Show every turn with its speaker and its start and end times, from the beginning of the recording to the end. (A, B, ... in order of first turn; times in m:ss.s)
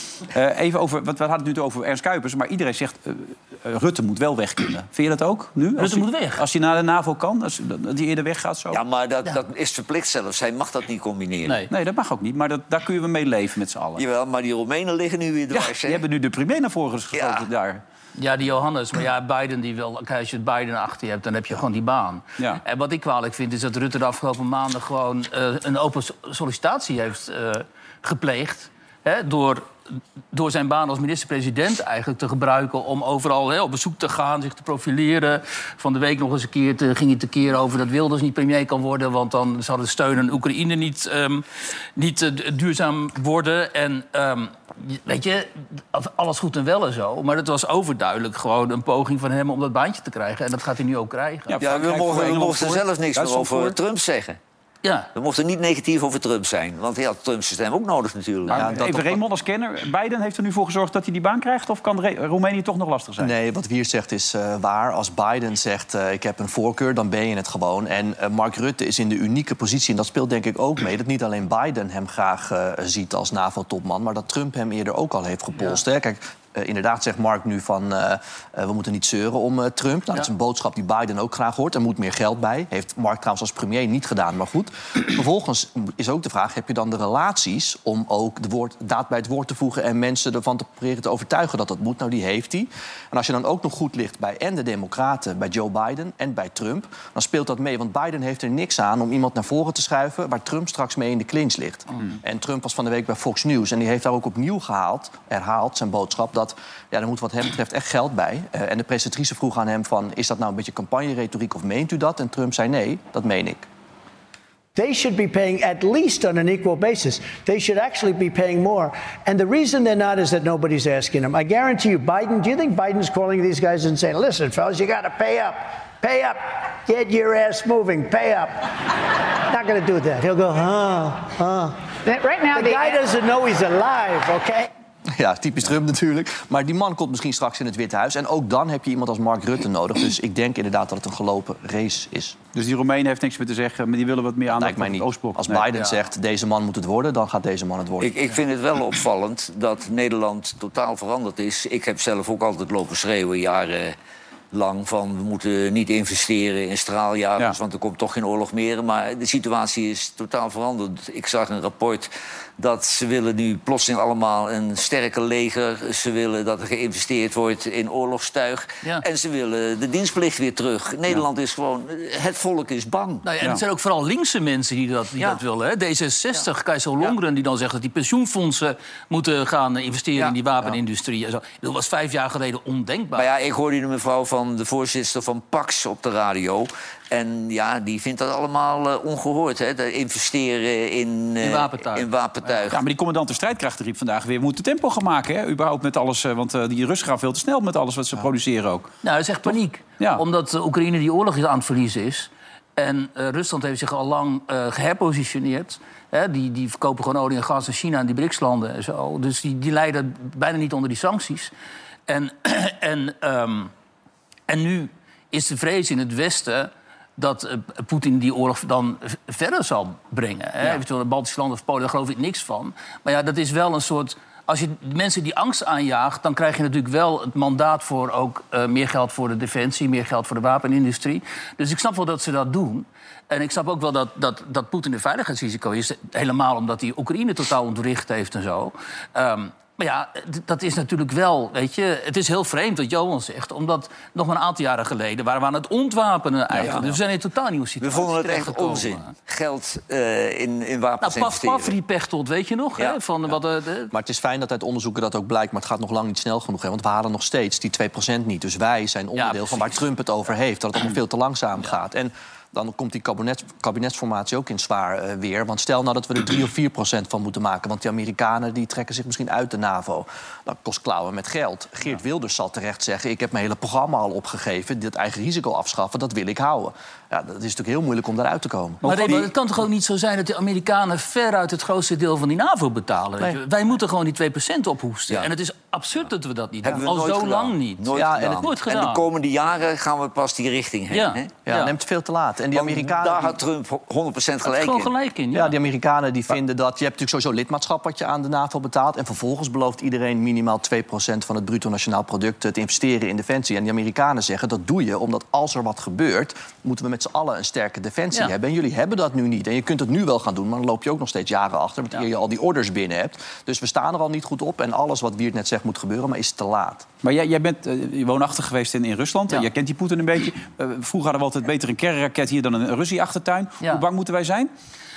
0:00.3-0:08.8 A
0:05.8-0:06.4 B
0:08.7-0:11.6 C
0:11.4-0:11.7 B
0:11.7-0:14.0 A
0:14.0-0:16.0 C
0:15.5-0:17.8 A
0:17.1-0:17.4 C
0:18.2-0:29.7 B
0:30.3-0:51.6 B
0:51.5-0:53.8 A
0:51.6-0:54.4 C
0:54.8-0:55.1 B
0:55.1-0:58.8 C
0:58.5-1:03.3 A
0:58.5-0:59.2 D
1:03.2-1:53.6 D
1:54.7-2:08.7 E
2:09.5-2:14.7 E
2:15.1-2:22.4 D
2:22.5-2:25.6 A
2:24.5-2:28.1 D
2:28.0-2:34.0 C
2:34.5-2:53.2 C
2:53.2-3:03.3 B
3:03.2-3:12.8 C
3:11.4-3:12.6 B
3:12.7-3:18.9 A
3:19.0-3:31.5 B
3:19.5-3:20.2 A
3:32.1-3:33.7 B
3:34.5-4:09.1 B
4:06.6-4:06.9 C
4:07.8-4:11.7 C
4:11.0-4:13.9 B
4:13.9-4:39.3 D
4:19.2-4:19.7 B
4:38.8-4:49.0 B
4:38.8-4:39.2 A
4:46.6-4:51.3 C
4:47.9-4:48.5 D
4:50.9-4:51.7 B
4:51.5-4:53.4 D
4:52.5-4:54.9 C
4:54.4-4:55.5 B
4:55.3-5:16.9 D
5:17.0-5:24.5 A